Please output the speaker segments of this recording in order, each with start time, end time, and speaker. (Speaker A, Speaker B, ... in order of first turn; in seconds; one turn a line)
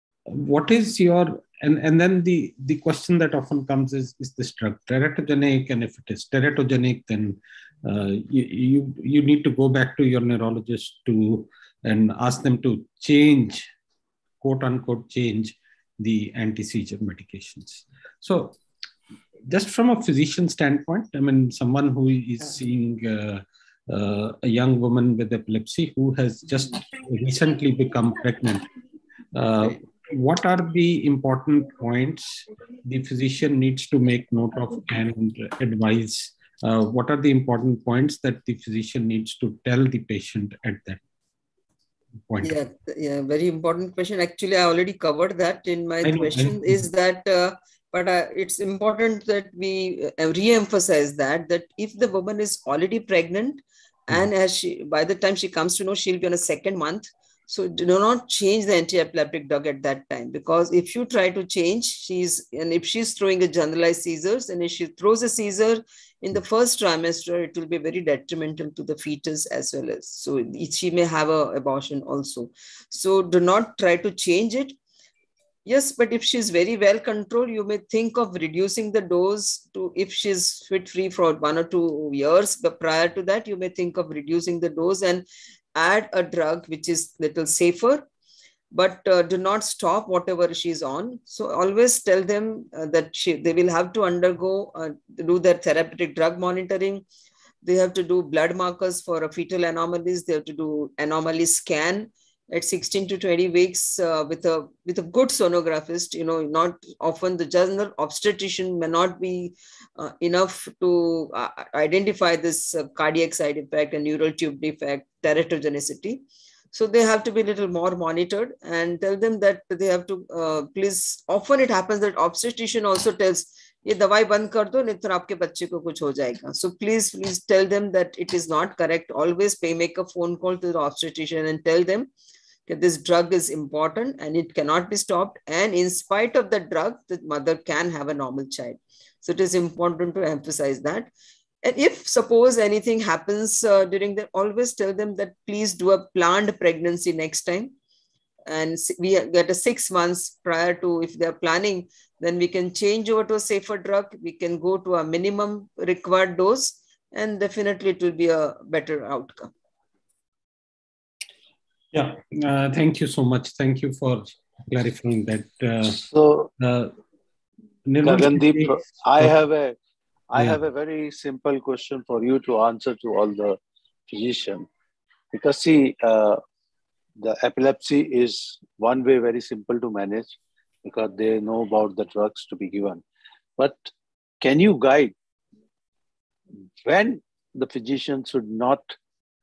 Speaker A: 0.3-13.7
Speaker A: 14.4-18.6
Speaker A: 19.5-28.7
Speaker A: 29.3-41.0
Speaker A: 42.3-42.6
Speaker B: 42.4-74.8
Speaker A: 46.0-46.9
Speaker B: 75.7-88.0
Speaker B: 88.7-97.0
Speaker B: 97.6-132.1
Speaker B: 132.7-141.1
Speaker B: 141.6-147.7
Speaker B: 148.5-159.5
Speaker A: 161.9-166.0
Speaker C: 165.9-166.5
Speaker A: 166.6-166.9
Speaker A: 167.8-169.3
Speaker C: 168.0-169.8
Speaker C: 170.3-173.6
Speaker C: 174.1-174.7
Speaker C: 175.3-176.4
Speaker C: 177.2-183.0
Speaker C: 183.6-185.1
Speaker C: 186.8-188.9